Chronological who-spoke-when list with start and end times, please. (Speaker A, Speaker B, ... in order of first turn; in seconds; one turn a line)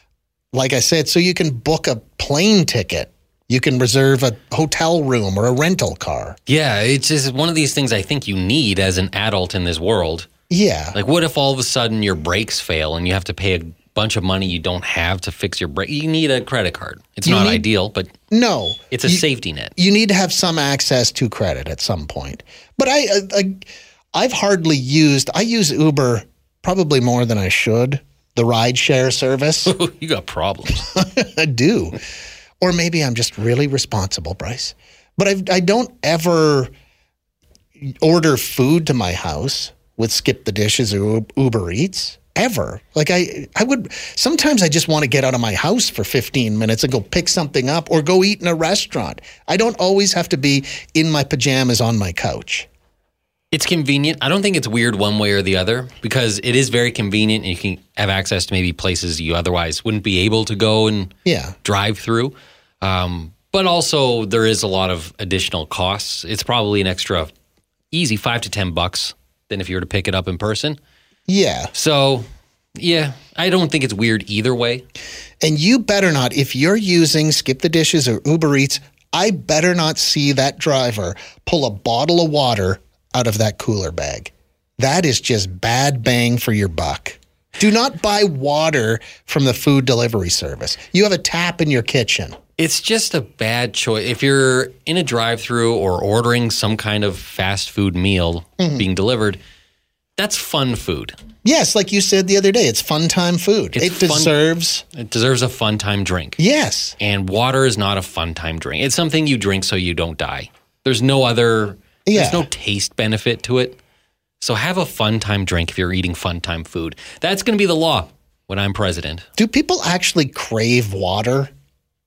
Speaker A: 0.5-6.4
Speaker B: 6.5-10.3
Speaker A: 10.5-11.0
Speaker B: 10.9-18.1
Speaker A: 17.2-17.7
Speaker A: 18.3-19.2
Speaker B: 18.9-19.7
Speaker A: 19.8-29.7
Speaker B: 29.7-30.9
Speaker A: 30.9-32.0
Speaker A: 32.6-36.7
Speaker A: 37.8-52.7
Speaker B: 53.5-61.1
Speaker A: 61.2-61.6
Speaker B: 61.6-67.3
Speaker B: 67.9-70.8
Speaker A: 71.3-71.7
Speaker B: 71.7-74.8
Speaker A: 75.4-92.4
Speaker B: 92.6-99.4
Speaker A: 98.6-98.8
Speaker B: 100.2-101.2
Speaker A: 101.4-104.8
Speaker B: 103.8-104.3
Speaker B: 104.9-106.4
Speaker A: 106.4-107.0
Speaker B: 107.0-113.8
Speaker A: 112.1-112.5
Speaker B: 114.4-119.3
Speaker A: 119.4-121.5